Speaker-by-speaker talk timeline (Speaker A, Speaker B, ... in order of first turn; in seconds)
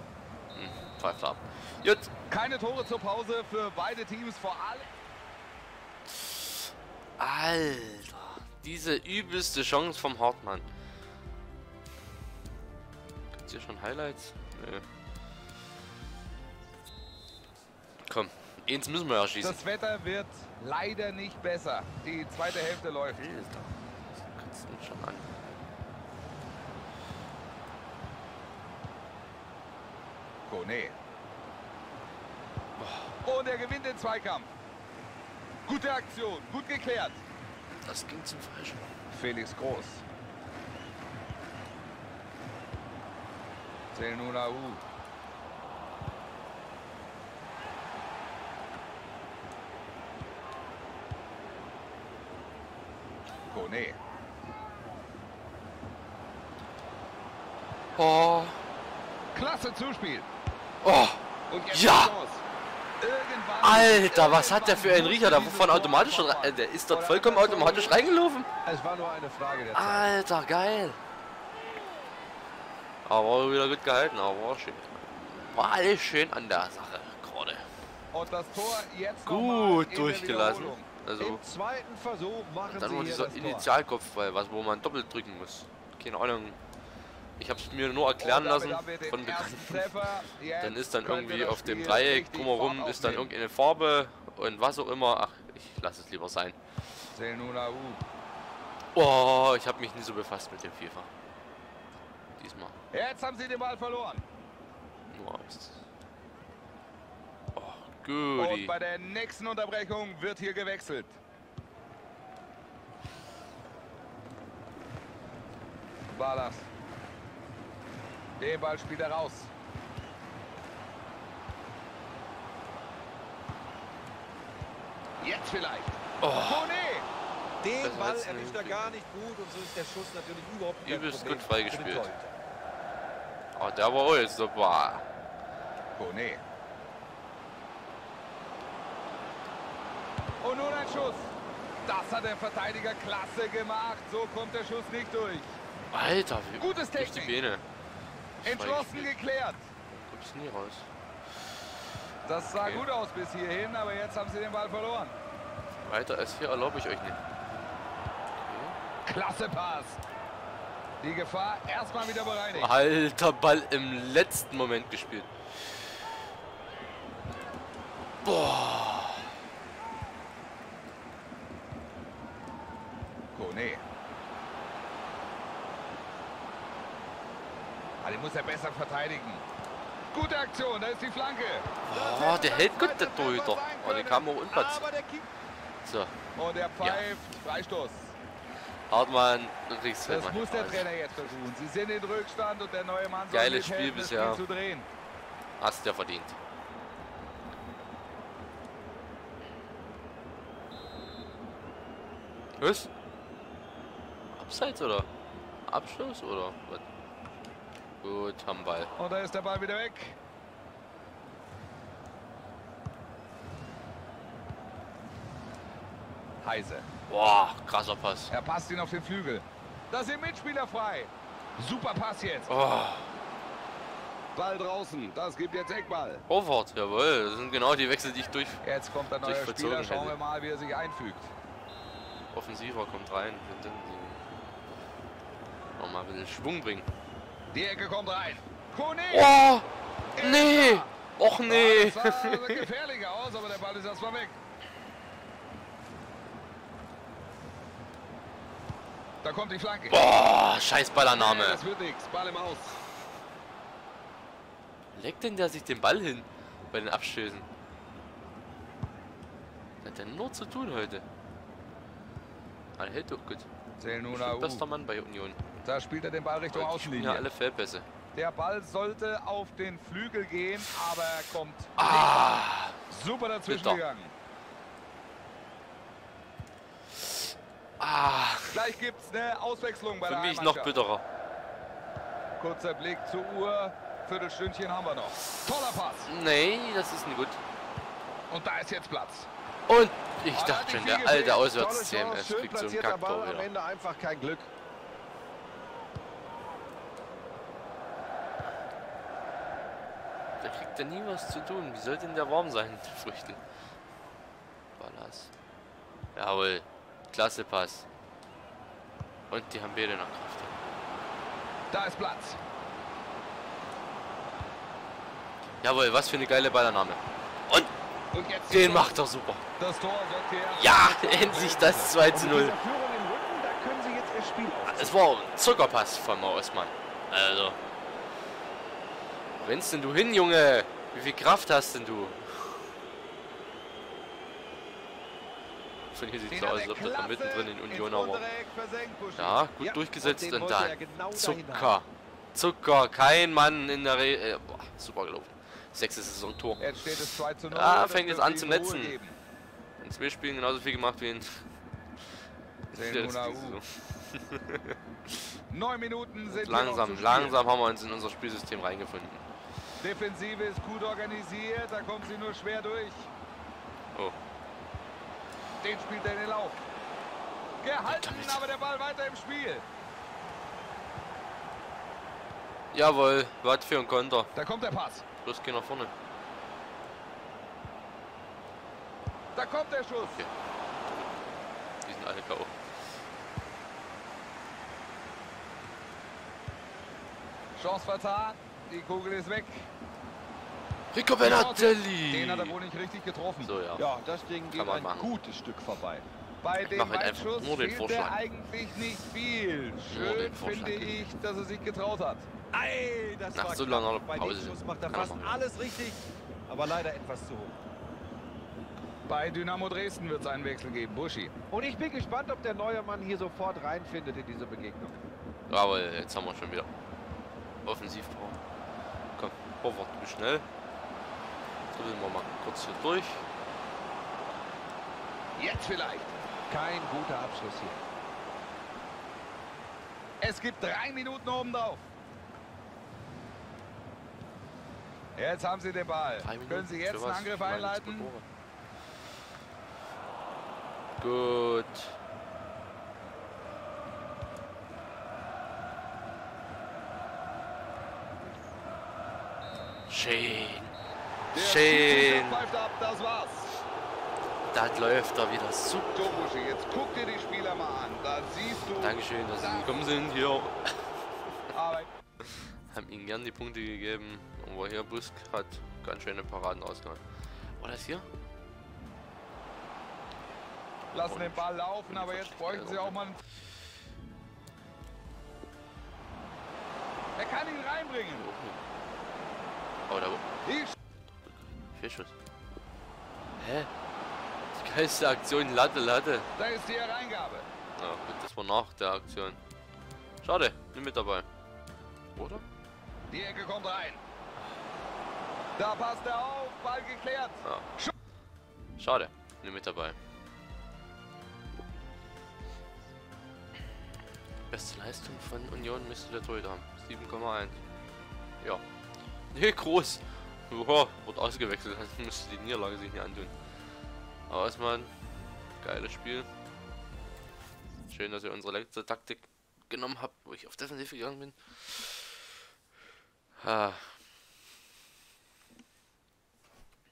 Speaker A: 0.6-2.1, 6.1-6.5, 7.2-10.7, 13.3-14.8, 18.1-19.6, 23.1-23.7, 24.3-25.3, 32.8-33.1, 37.8-38.9, 58.0-58.6, 60.8-62.2, 63.6-68.5, 69.7-71.0, 73.0-77.7, 78.6-81.4, 82.7-86.6, 87.4-96.6, 99.0-101.1, 102.4-102.8, 105.1-105.8, 107.5-108.7, 126.2-126.7, 127.8-128.8, 130.8-132.1, 133.6-135.1, 145.9-147.6, 148.4-149.2, 149.9-150.9, 152.6-152.9, 155.8-157.2, 158.4-158.8, 162.5-165.3, 168.2-169.3, 181.8-184.9, 185.8-186.2, 186.8-187.1, 188.9-191.3, 193.3-194.4, 195.6-196.4, 202.6-202.9, 204.3-205.1, 205.7-206.8, 208.0-208.9, 217.1-218.3, 222.5-223.2, 226.3-228.6, 229.2-230.2, 232.3-234.3, 235.8-236.9, 239.1-239.7, 240.2-242.7, 249.9-251.6, 254.9-257.5, 259.8-261.1, 262.8-263.5, 264.1-265.4, 266.5-267.9, 271.8-272.8, 273.5-273.8, 277.8-278.6, 280.0-281.0, 286.1-287.4, 289.7-293.5, 300.4-303.4, 304.8-305.3, 306.1-307.9, 309.3-310.5, 315.6-317.7, 318.5-319.4, 320.6-322.6, 324.6-327.6, 329.4-332.7, 335.9-338.2, 339.2-349.0, 349.8-351.4, 352.7-354.8, 356.3-359.2, 367.9-368.4, 372.7-374.3, 375.2-375.9, 380.0-380.3, 381.8-382.6, 390.9-392.6, 393.4-393.9, 394.5-395.1, 396.6-398.2, 399.9-401.0, 403.3-405.6, 415.5-416.7, 417.6-418.4, 419.2-420.5, 421.7-423.3, 436.2-438.3, 441.0-442.0, 449.9-450.7, 451.3-452.5, 454.5-456.3, 458.8-460.9, 462.2-467.0, 467.6-468.1, 470.9-473.1, 478.1-478.6, 479.9-480.2, 481.7-482.1, 483.4-483.7, 484.6-486.3, 487.8-489.4, 490.2-491.3, 492.2-492.4, 498.8-500.0, 504.5-507.6, 509.3-513.3, 514.3-514.9, 515.6-516.3, 517.9-522.1, 523.4-523.9
Speaker B: 2.3-4.9, 19.4-23.2, 30.5-31.0, 33.2-34.5, 35.7-37.2, 39.1-40.0, 43.9-44.8, 53.5-54.0, 59.3-60.3, 61.5-62.4, 63.0-68.1, 78.1-80.9, 88.2-93.3, 97.1-98.0, 102.9-104.3, 108.4-111.2, 116.1-116.7, 118.4-119.5, 125.2-127.1, 135.9-136.4, 140.4-141.3, 141.9-145.6, 146.6-147.4, 148.4-149.6, 152.2-155.2, 159.1-160.0, 161.0-162.7, 173.3-173.8, 178.0-179.4, 180.1-184.8, 186.4-188.2, 190.1-194.9, 209.0-210.2, 216.4-216.9, 218.3-222.5, 224.3-226.2, 228.6-231.3, 237.5-239.4, 240.2-240.9, 241.5-244.4, 249.2-250.0, 251.1-252.8, 263.8-264.7, 265.6-267.3, 268.1-272.1, 272.9-274.1, 278.5-280.8, 282.4-286.1, 288.3-289.3, 290.3-291.5, 311.7-312.4, 318.1-319.0, 319.6-322.0, 336.3-339.4, 346.6-349.2, 352.7-353.6, 355.5-357.4, 359.8-363.1, 365.6-366.6, 367.6-369.6, 374.4-375.0, 379.4-380.2, 387.6-389.7, 391.2-393.5, 396.4-402.3, 409.1-411.3, 425.4-426.1, 430.2-431.9, 435.2-438.1, 451.3-453.6, 455.9-459.9, 461.5-461.9, 470.9-473.2, 477.2-478.3, 480.4-480.8, 486.4-487.5, 493.1-494.0, 495.6-497.9
Speaker C: 68.7-70.1, 81.2-83.7, 127.6-132.3, 184.8-185.1, 291.5-294.5, 322.0-325.0, 339.6-341.8, 393.8-396.1, 402.5-407.6, 411.5-415.0, 426.5-427.8